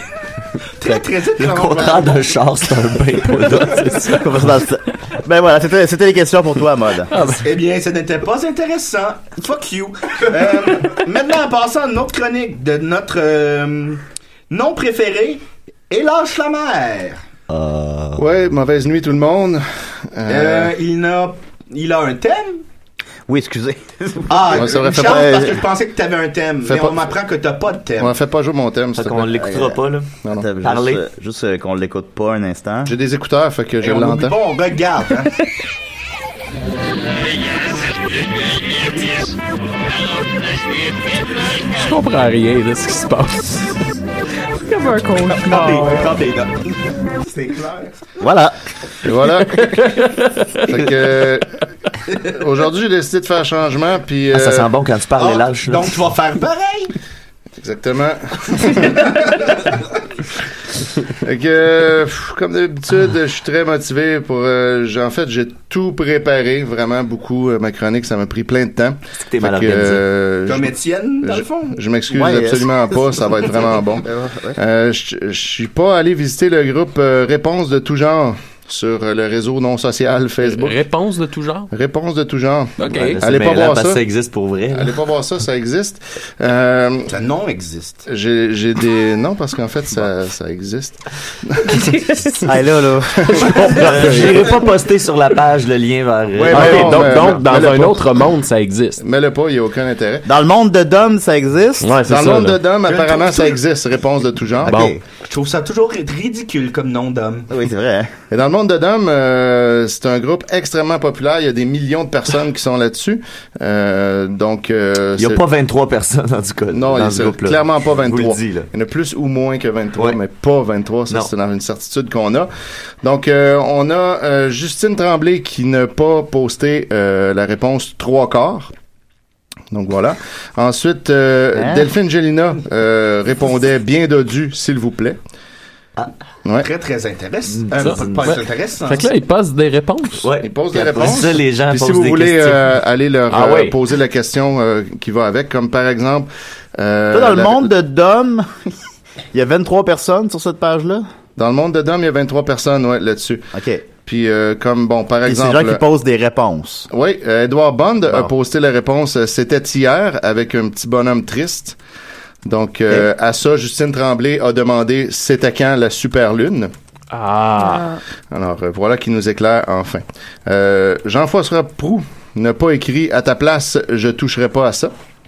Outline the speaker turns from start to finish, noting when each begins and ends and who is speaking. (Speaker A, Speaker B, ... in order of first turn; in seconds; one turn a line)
Speaker A: 0.8-2.4
Speaker B: 1.4-4.1
Speaker C: 3.4-4.3
Speaker D: 4.1-7.1
Speaker C: 7.1-7.4
Speaker A: 7.2-17.2
Speaker B: 17.5-18.2
Speaker E: 18.2-20.7
Speaker A: 20.3-22.6
Speaker D: 23.3-25.6
Speaker A: 24.3-28.2
Speaker E: 24.5-25.3
Speaker E: 26.6-27.0
Speaker E: 28.0-29.4
Speaker B: 28.9-30.1
Speaker D: 29.4-29.8
Speaker D: 30.3-32.9
Speaker B: 30.6-31.0
Speaker E: 32.9-34.4
Speaker A: 33.8-35.4
Speaker C: 41.7-43.7
Speaker F: 44.6-46.2
Speaker A: 45.2-48.1
Speaker D: 48.2-48.5
Speaker E: 49.0-49.8
Speaker C: 49.6-50.3
Speaker E: 50.6-51.5
Speaker E: 52.3-54.7
Speaker B: 54.3-56.0
Speaker A: 55.2-56.9
Speaker E: 57.6-59.3
Speaker E: 61.2-80.8
Speaker B: 69.3-70.0
Speaker A: 70.5-71.8
Speaker D: 72.1-73.5
Speaker D: 74.0-74.6
Speaker C: 80.4-81.7
Speaker E: 81.7-84.0
Speaker C: 82.8-83.2
Speaker B: 82.9-85.0
Speaker E: 84.7-87.1
Speaker A: 87.1-88.0
Speaker E: 88.1-92.6
Speaker D: 92.4-94.3
Speaker E: 93.2-94.4
Speaker B: 93.7-97.1
Speaker E: 96.3-98.2
Speaker C: 96.5-99.0
Speaker E: 99.0-100.2
Speaker D: 100.2-102.0
Speaker C: 101.8-102.6
Speaker E: 102.0-104.9
Speaker A: 102.8-103.6
Speaker D: 104.6-105.0
Speaker C: 104.7-104.9
Speaker A: 105.2-107.5
Speaker D: 107.5-108.1
Speaker E: 108.3-115.4
Speaker B: 115.2-118.7
Speaker E: 116.7-122.5
Speaker E: 123.0-128.7
Speaker E: 129.7-135.2
Speaker D: 131.6-131.9
Speaker A: 136.6-139.1
Speaker B: 137.5-138.4
Speaker C: 137.8-140.2
Speaker B: 140.2-142.6
Speaker E: 140.4-147.7
Speaker C: 143.3-143.8
Speaker D: 147.1-148.7
Speaker D: 149.3-151.1
Speaker E: 151.4-155.8
Speaker D: 153.5-153.8
Speaker D: 155.2-156.9
Speaker E: 156.9-161.8
Speaker E: 162.4-166.7
Speaker C: 167.1-167.9
Speaker F: 167.6-168.0
Speaker E: 168.3-174.9